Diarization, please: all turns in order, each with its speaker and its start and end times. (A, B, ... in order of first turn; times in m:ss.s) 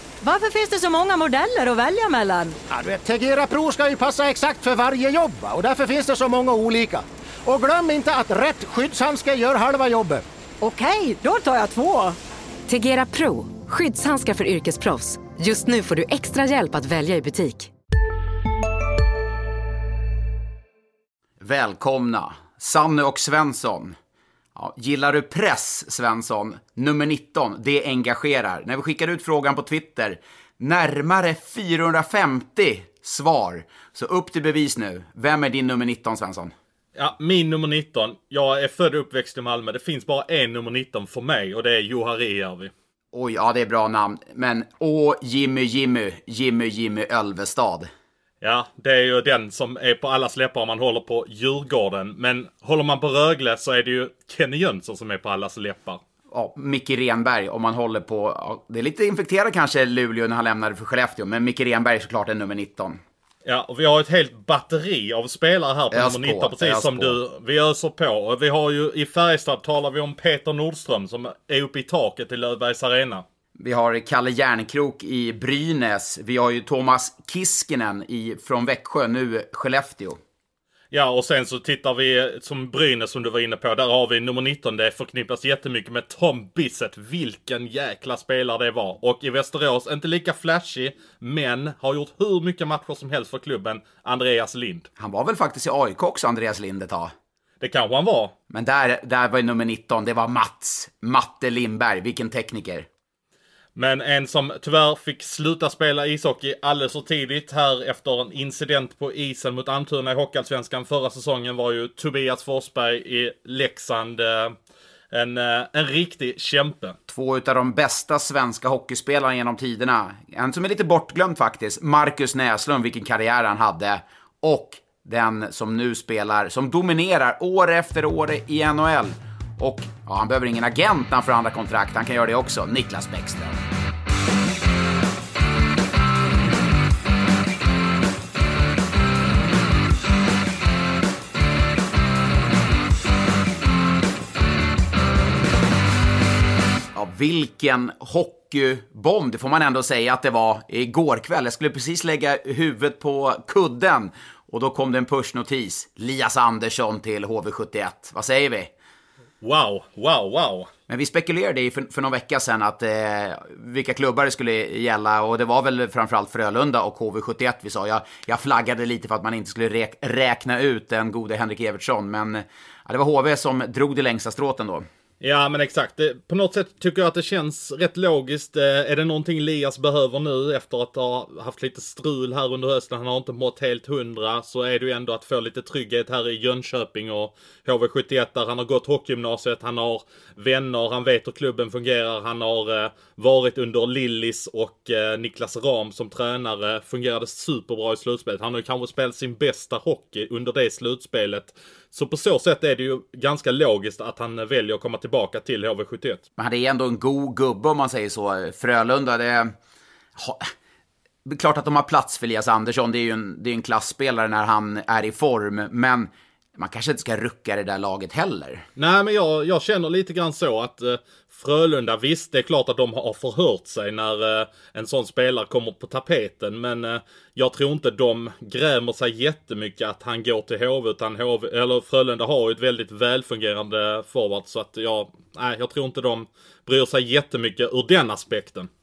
0:00.2-0:02.6 A
0:02.7-0:10.2 B
0:10.6-0:12.2 A
0:12.7-0:17.7 C
0:21.4-0:24.0 D
0:24.5-0:36.5 D
0:37.0-0:42.7 E
0:43.1-0:47.9 D
0:48.4-0:56.0 E
0:56.3-1:03.0 D
1:03.4-1:13.2 E
1:05.9-1:07.2 D
1:13.6-1:20.2 D
1:20.9-1:34.9 E
1:35.0-1:37.1 D
1:37.6-1:38.3 E
1:38.5-1:42.9 D
1:43.8-1:54.5 E
1:55.1-1:57.0 E
1:57.1-2:13.6 D
2:26.9-2:38.7 D
2:39.4-2:40.7 E
2:40.9-2:54.9 D
2:55.2-3:26.2 E
3:26.4-3:29.5 D
3:30.2-3:30.5 D
3:31.2-3:38.7 D
3:38.8-3:58.7 E